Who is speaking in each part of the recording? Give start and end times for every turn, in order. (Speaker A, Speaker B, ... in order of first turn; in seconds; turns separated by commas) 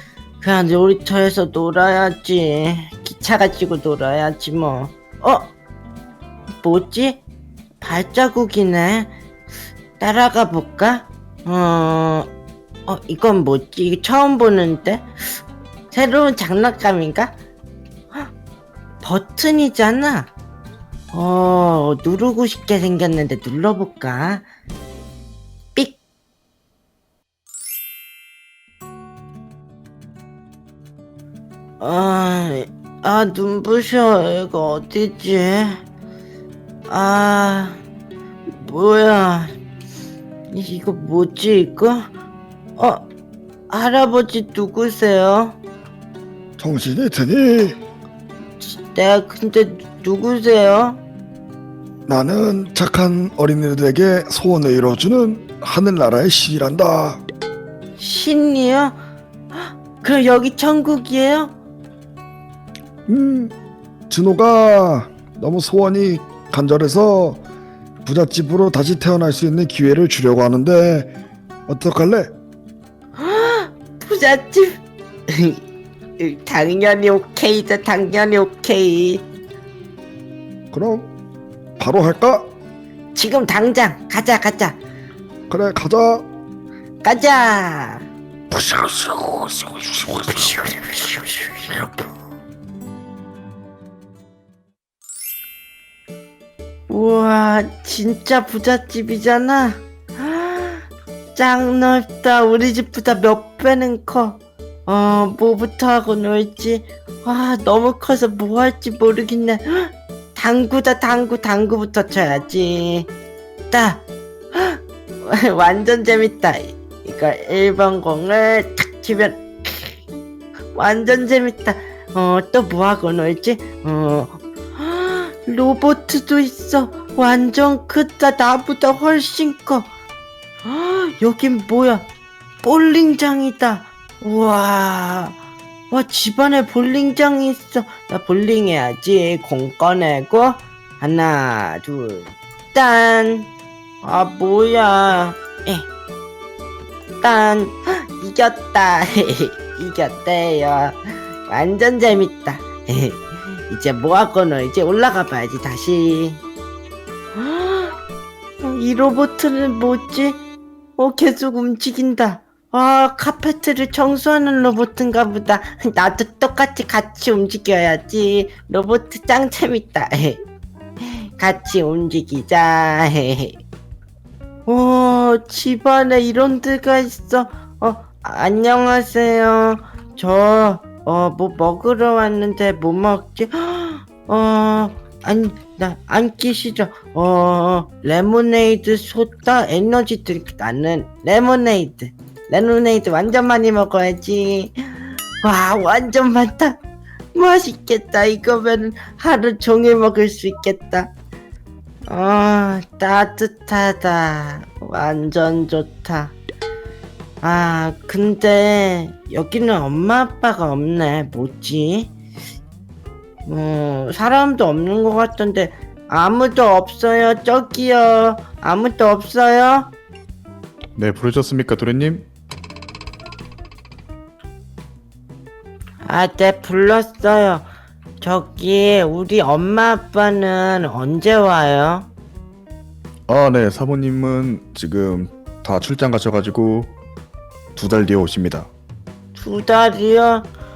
Speaker A: 0.4-5.5, Speaker A: 6.6-7.2, Speaker A: 7.8-9.1, Speaker A: 10.0-12.3, Speaker A: 12.9-15.1, Speaker A: 15.9-17.3, Speaker A: 19.0-20.3, Speaker A: 21.1-24.5, Speaker A: 31.8-35.8, Speaker A: 36.9-37.8, Speaker A: 38.5-39.5, Speaker A: 40.5-42.1, Speaker A: 42.8-43.0, Speaker A: 43.7-45.6, Speaker B: 46.6-47.8, Speaker A: 48.6-51.0, Speaker B: 52.1-57.2, Speaker A: 58.0-59.0, Speaker A: 59.5-61.5, Speaker B: 63.1-63.5, Speaker B: 64.1-67.4, Speaker B: 68.0-71.1, Speaker B: 71.7-72.3, Speaker A: 73.2-74.8, Speaker A: 75.3-75.6, Speaker A: 76.2-79.2, Speaker B: 80.7-81.1, Speaker B: 81.8-82.5, Speaker A: 83.1-84.8, Speaker B: 85.5-86.3, Speaker A: 87.0-88.0, Speaker B: 88.5-90.0, Speaker A: 90.1-91.9, Speaker A: 96.9-113.1, Speaker A: 113.7-114.0, Speaker A: 114.5-120.0, Speaker A: 120.7-129.9, Speaker A: 130.6-132.1, Speaker A: 132.6-135.4, Speaker A: 135.9-143.5, Speaker A: 144.0-145.8, Speaker A: 147.2-156.4, Speaker A: 157.3-157.9, Speaker A: 158.6-160.4, Speaker A: 161.0-170.4, Speaker A: 171.0-173.6, Speaker A: 174.7-194.7, Speaker A: 195.4-196.8, Speaker A: 197.3-201.1, Speaker A: 202.1-206.4, Speaker A: 207.4-212.1, Speaker A: 213.4-219.9, Speaker C: 220.9-222.3, Speaker A: 226.0-227.7, Speaker A: 228.2-232.1, Speaker C: 233.3-236.9, Speaker C: 237.8-238.7, Speaker A: 239.3-240.5